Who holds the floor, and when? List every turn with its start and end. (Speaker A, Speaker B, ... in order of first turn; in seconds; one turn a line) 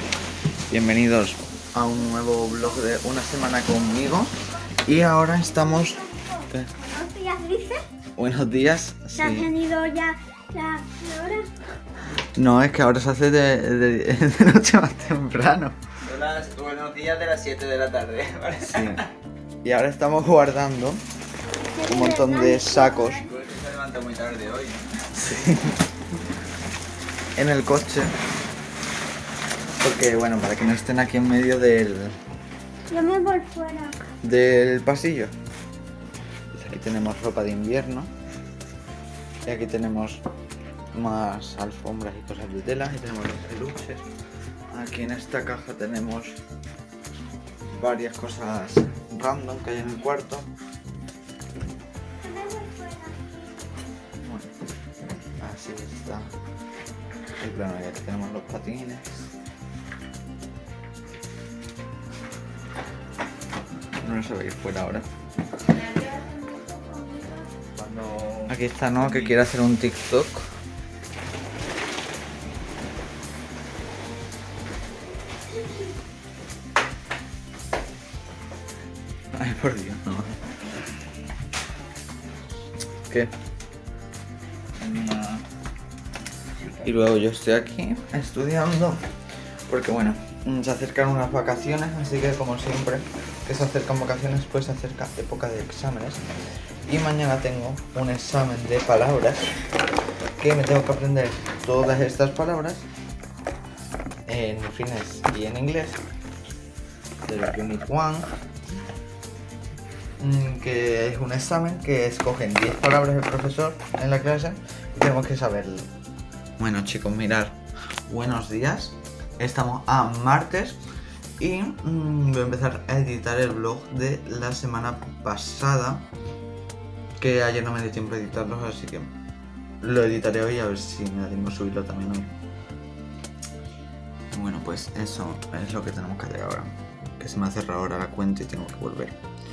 Speaker A: 0.7-6.7
Speaker B: 5.5-7.8
Speaker A: 8.2-9.5
Speaker B: 9.2-11.5
Speaker A: 12.3-15.8
Speaker C: 16.0-19.1
Speaker A: 18.6-19.0
Speaker A: 19.6-21.0
Speaker B: 21.7-23.3
Speaker A: 21.8-23.2
Speaker C: 23.2-25.1
Speaker A: 25.1-25.8
Speaker A: 27.4-28.1
Speaker A: 29.8-32.2
Speaker B: 32.9-34.1
Speaker A: 34.2-35.3
Speaker A: 36.5-38.1
Speaker A: 39.5-40.2
Speaker A: 40.9-44.1
Speaker A: 44.7-46.4
Speaker A: 47.7-50.5
Speaker B: 52.2-53.7
Speaker A: 54.2-54.5
Speaker A: 55.4-56.3
Speaker A: 57.4-59.3
Speaker A: 64.0-65.1
Speaker B: 65.7-67.5
Speaker C: 67.8-69.4
Speaker A: 68.5-70.5
Speaker A: 79.3-80.5
Speaker C: 84.8-85.5
Speaker C: 86.6-87.0
Speaker A: 86.8-89.0
Speaker A: 89.7-96.2
Speaker A: 96.9-99.5
Speaker A: 100.4-102.9
Speaker A: 104.3-106.0
Speaker C: 107.2-107.9
Speaker A: 107.8-108.3
Speaker A: 110.2-115.9
Speaker A: 116.6-120.8
Speaker A: 121.4-126.1
Speaker A: 127.2-129.1
Speaker A: 129.8-132.3
Speaker A: 134.3-139.2